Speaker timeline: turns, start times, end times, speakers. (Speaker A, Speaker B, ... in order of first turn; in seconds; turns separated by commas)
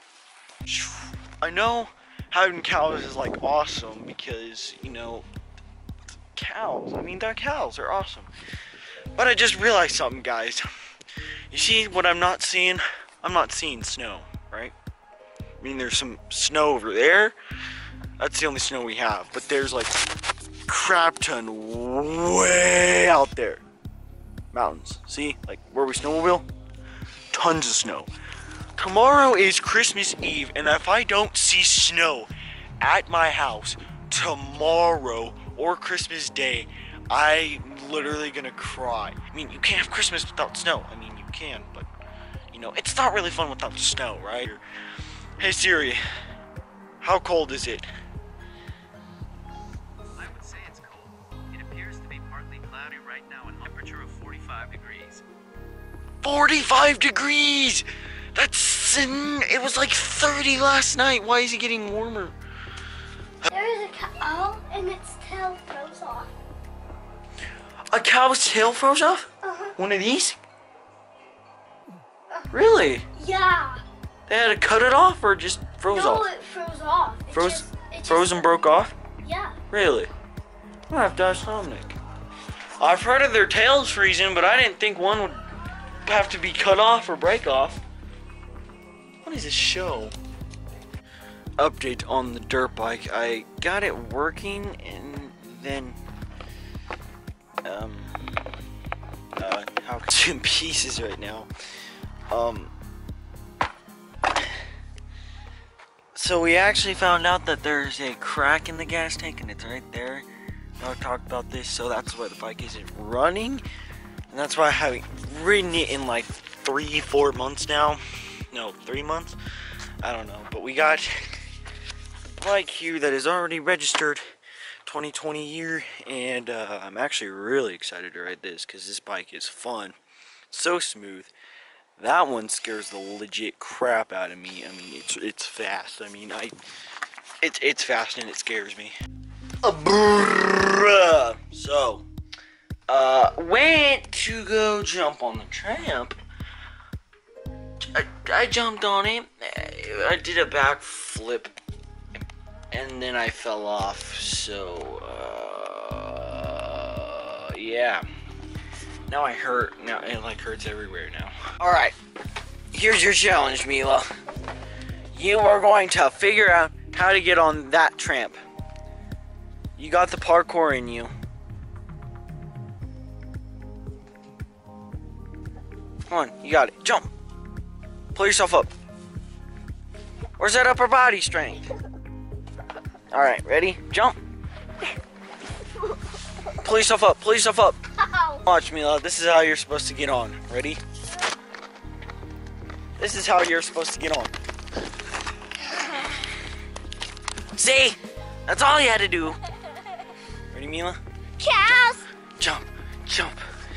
Speaker A: 0.6-5.3, Speaker A: 6.1-10.7, Speaker A: 11.5-14.8, Speaker A: 15.6-17.4, Speaker A: 18.2-20.0, Speaker A: 20.6-23.6, Speaker A: 24.5-26.5, Speaker A: 27.3-28.1, Speaker A: 28.8-41.9, Speaker A: 42.5-44.6, Speaker A: 45.4-46.0, Speaker A: 47.0-47.9, Speaker B: 50.2-55.2, Speaker A: 53.1-54.8, Speaker A: 56.2-62.4, Speaker C: 63.5-66.3, Speaker A: 67.9-70.4, Speaker C: 69.4-69.7, Speaker A: 72.5-73.1, Speaker C: 73.2-73.8, Speaker A: 74.3-76.3, Speaker C: 75.9-78.4, Speaker A: 77.3-78.9, Speaker C: 79.2-79.5, Speaker A: 79.7-80.1, Speaker A: 80.9-82.0, Speaker A: 82.8-85.4, Speaker A: 86.0-87.8, Speaker A: 89.2-90.2, Speaker A: 91.6-96.0, Speaker A: 97.7-98.5, Speaker A: 99.4-101.5, Speaker A: 102.3-102.7, Speaker A: 106.1-110.3, Speaker A: 110.8-113.6, Speaker A: 114.3-119.4, Speaker A: 120.0-121.4, Speaker A: 122.4-124.2, Speaker A: 124.8-129.9, Speaker A: 130.5-131.3, Speaker A: 132.0-136.6, Speaker A: 137.4-138.9, Speaker A: 139.6-142.1, Speaker A: 142.9-146.2, Speaker A: 147.9-151.6, Speaker A: 152.2-158.1, Speaker A: 159.1-162.0, Speaker A: 162.7-164.1, Speaker A: 165.1-168.4, Speaker A: 169.8-171.1, Speaker A: 176.1-177.1, Speaker A: 178.1-178.7, Speaker A: 180.4-181.8, Speaker A: 183.1-184.2, Speaker A: 186.4-190.8, Speaker A: 193.0-194.3, Speaker A: 195.9-196.2, Speaker A: 197.5-199.4, Speaker A: 200.5-201.0, Speaker C: 201.4-202.1, Speaker A: 202.2-203.4